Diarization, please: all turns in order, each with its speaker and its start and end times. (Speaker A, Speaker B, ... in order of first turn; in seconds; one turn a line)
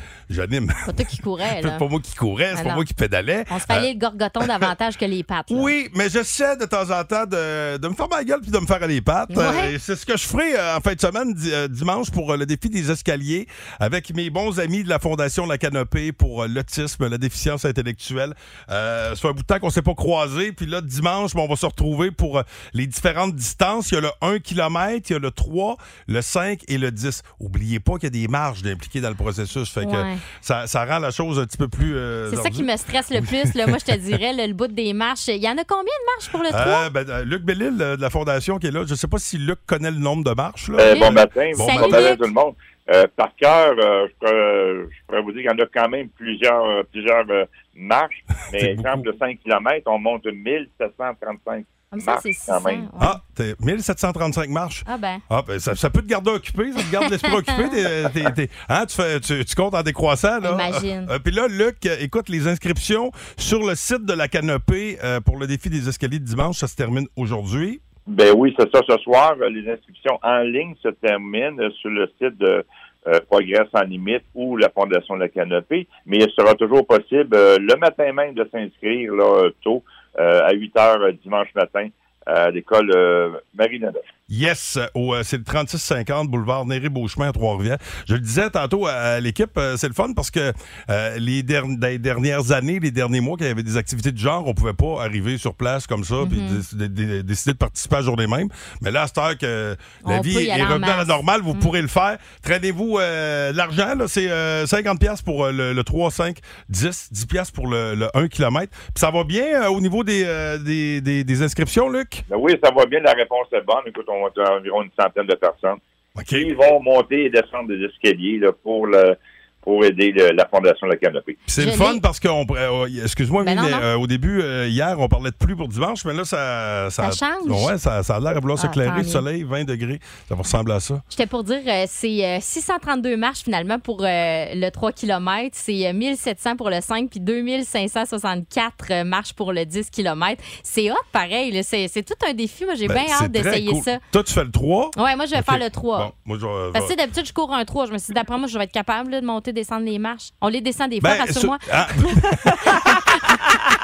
Speaker A: 0.3-3.9
Speaker B: 0.8-1.8
Speaker B: 2.5-2.8
Speaker B: 3.5-5.7
Speaker A: 4.4-4.7
Speaker A: 5.5-34.0
Speaker B: 9.3-9.7
Speaker B: 29.8-30.2
Speaker B: 32.3-36.9
Speaker A: 36.5-42.2
Speaker C: 40.8-52.9
Speaker B: 40.8-42.3
Speaker A: 48.5-49.0
Speaker B: 51.9-53.2
Speaker A: 53.0-67.8
Speaker B: 54.9-55.2
Speaker B: 57.0-57.7
Speaker B: 60.4-61.1
Speaker C: 68.1-84.0
Speaker A: 84.3-112.2
Speaker B: 96.2-96.6
Speaker B: 100.0-101.7
Speaker C: 112.3-115.8
Speaker A: 116.2-116.5
Speaker C: 116.3-121.4
Speaker A: 121.5-131.0
Speaker B: 121.6-122.0
Speaker B: 123.4-123.8
Speaker B: 127.0-127.7
Speaker B: 128.6-129.2
Speaker B: 131.1-144.0
Speaker A: 142.8-146.9
Speaker B: 144.9-146.1
Speaker B: 146.7-153.4
Speaker A: 151.0-153.3